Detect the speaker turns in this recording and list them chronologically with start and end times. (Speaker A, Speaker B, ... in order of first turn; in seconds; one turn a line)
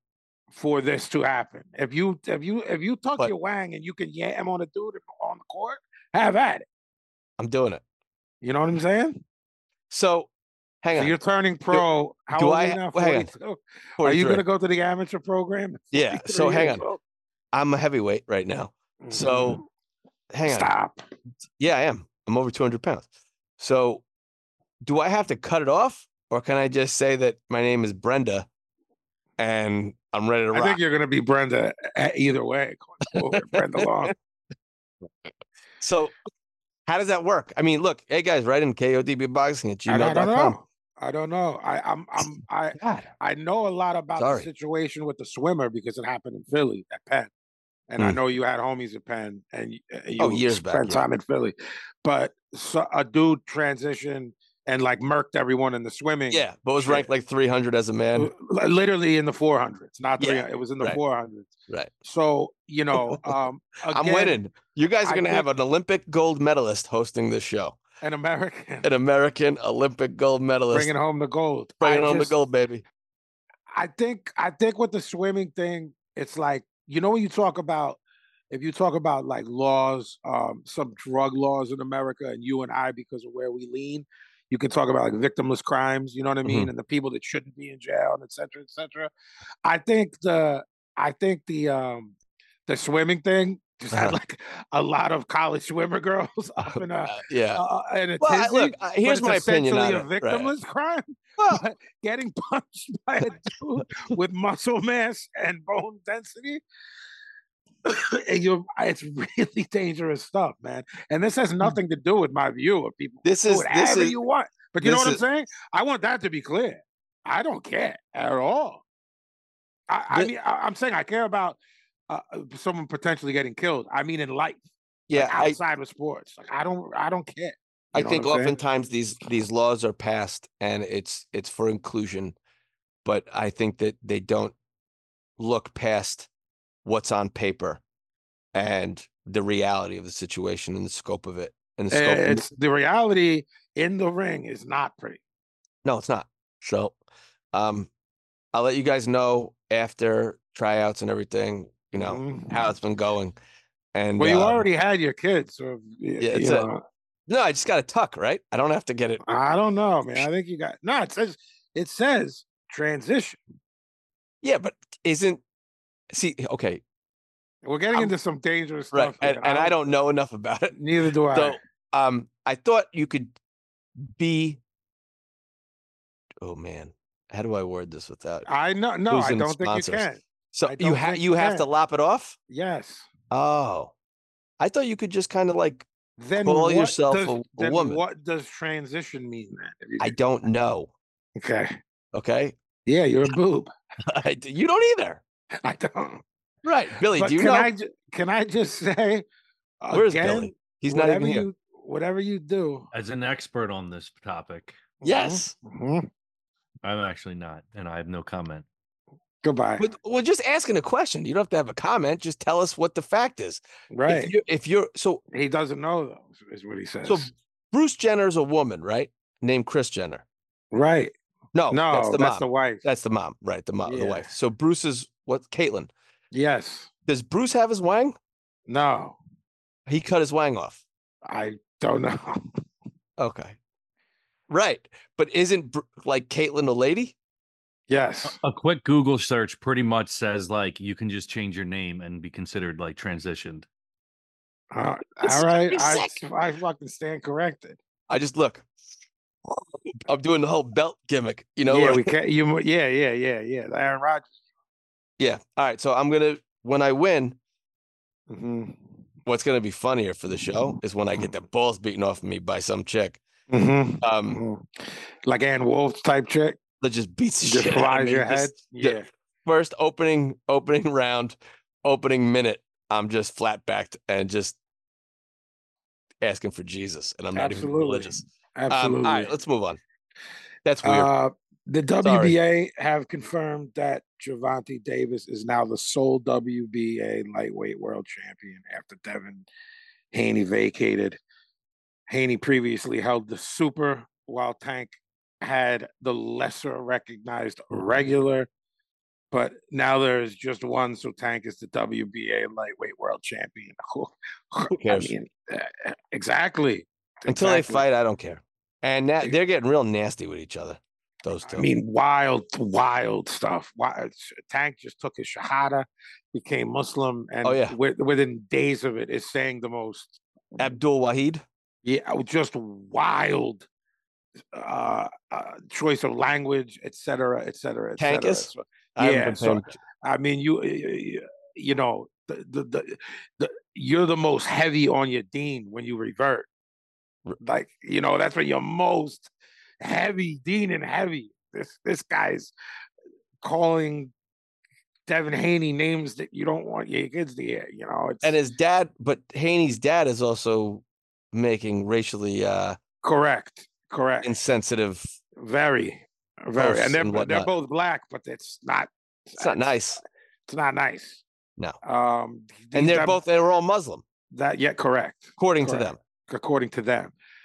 Speaker A: 0.5-6.7
Speaker B: 7.4-7.8
Speaker A: 8.4-9.2
Speaker B: 9.9-10.3
Speaker B: 10.8-11.2
Speaker A: 10.9-17.0
Speaker B: 11.7-13.3
Speaker B: 14.0-14.4
Speaker B: 15.9-16.9
Speaker B: 17.5-19.6
Speaker A: 19.0-19.7
Speaker B: 20.3-20.7
Speaker A: 20.5-21.0
Speaker B: 21.6-24.1
Speaker B: 24.8-28.5
Speaker B: 29.4-30.8
Speaker A: 30.5-34.1
Speaker B: 33.3-33.9
Speaker B: 35.8-36.1
Speaker B: 36.9-40.6
Speaker A: 39.9-47.3
Speaker B: 42.8-43.1
Speaker B: 44.2-44.5
Speaker A: 47.9-57.1
Speaker B: 50.2-51.0
Speaker B: 56.3-58.3
Speaker A: 58.2-61.5
Speaker B: 60.2-61.0
Speaker A: 62.0-64.4
Speaker B: 63.9-67.8
Speaker A: 65.0-65.5
Speaker A: 68.0-68.9
Speaker B: 68.8-70.9
Speaker A: 70.7-72.4
Speaker B: 71.8-72.8
Speaker A: 73.7-78.0
Speaker A: 78.5-89.1
Speaker A: 89.6-92.2
Speaker A: 92.7-106.6
Speaker B: 96.7-97.6
Speaker B: 98.2-100.5
Speaker A: 107.8-118.8
Speaker B: 113.2-114.2
Speaker B: 114.8-115.2
Speaker A: 119.9-128.5
Speaker B: 125.1-125.6
Speaker B: 127.9-132.4
Speaker B: 133.0-134.6
Speaker B: 135.4-136.3
Speaker B: 136.8-137.8
Speaker B: 138.5-142.4
Speaker A: 141.9-145.2
Speaker B: 145.8-147.0
Speaker B: 147.5-147.9
Speaker B: 148.5-153.4
Speaker A: 152.0-152.7
Speaker B: 153.9-154.7
Speaker A: 154.2-156.8
Speaker B: 156.2-156.7
Speaker B: 157.3-159.2
Speaker A: 159.2-163.4
Speaker B: 164.4-165.4
Speaker B: 166.1-166.8
Speaker A: 167.6-169.8
Speaker B: 168.9-170.8
Speaker A: 170.7-171.6
Speaker B: 171.3-173.3
Speaker B: 174.0-174.6
Speaker B: 176.4-178.5
Speaker A: 178.5-181.7
Speaker B: 179.1-182.4
Speaker A: 182.5-183.1
Speaker B: 183.3-183.9
Speaker B: 184.6-185.9
Speaker A: 186.2-190.2
Speaker B: 186.4-188.0
Speaker B: 190.0-190.9
Speaker A: 191.4-191.8
Speaker B: 192.1-192.6
Speaker A: 192.9-193.7
Speaker B: 194.1-195.2
Speaker A: 195.6-196.2
Speaker B: 196.6-197.7
Speaker A: 197.1-199.2
Speaker A: 199.8-202.9
Speaker B: 199.9-201.5
Speaker C: 202.9-204.8
Speaker A: 205.0-206.1
Speaker B: 205.0-205.5
Speaker C: 206.8-208.7
Speaker A: 209.4-209.9
Speaker B: 209.8-215.2
Speaker A: 213.9-214.3
Speaker A: 215.3-217.3
Speaker B: 217.1-220.2
Speaker A: 220.7-221.1
Speaker B: 221.5-225.9
Speaker A: 221.7-222.9
Speaker A: 223.8-224.3
Speaker A: 226.3-226.9
Speaker B: 227.1-228.2
Speaker A: 228.7-229.2
Speaker B: 229.9-230.8
Speaker A: 231.3-232.4
Speaker B: 233.2-233.6
Speaker B: 234.5-237.2
Speaker A: 237.9-238.4
Speaker C: 238.2-243.7
Speaker A: 244.7-247.8
Speaker B: 245.2-246.1
Speaker B: 248.1-248.7
Speaker B: 249.5-252.1
Speaker A: 251.7-254.3
Speaker B: 255.2-257.4
Speaker A: 258.3-258.8
Speaker B: 259.3-263.2
Speaker A: 263.5-266.6
Speaker B: 264.0-264.4
Speaker B: 266.8-274.6
Speaker A: 267.4-269.1
Speaker B: 276.2-279.8
Speaker A: 277.4-279.3
Speaker B: 280.6-281.1
Speaker A: 280.8-289.5
Speaker B: 282.0-282.4
Speaker A: 290.1-291.2
Speaker A: 292.1-298.5
Speaker A: 299.3-307.8
Speaker B: 304.7-305.1
Speaker B: 307.3-311.7
Speaker A: 311.4-320.6
Speaker B: 317.4-317.8
Speaker B: 320.6-321.4
Speaker A: 321.9-323.7
Speaker A: 324.5-336.5
Speaker B: 328.0-329.8
Speaker A: 337.4-339.3
Speaker A: 339.8-342.5
Speaker A: 343.4-344.1
Speaker A: 345.1-348.4
Speaker B: 348.2-352.8
Speaker A: 353.0-354.3
Speaker B: 354.2-355.1
Speaker A: 355.4-359.7
Speaker B: 356.6-357.5
Speaker B: 359.4-360.0
Speaker A: 360.5-361.2
Speaker A: 361.8-363.2
Speaker B: 362.7-364.0
Speaker A: 364.3-367.1
Speaker B: 365.4-366.0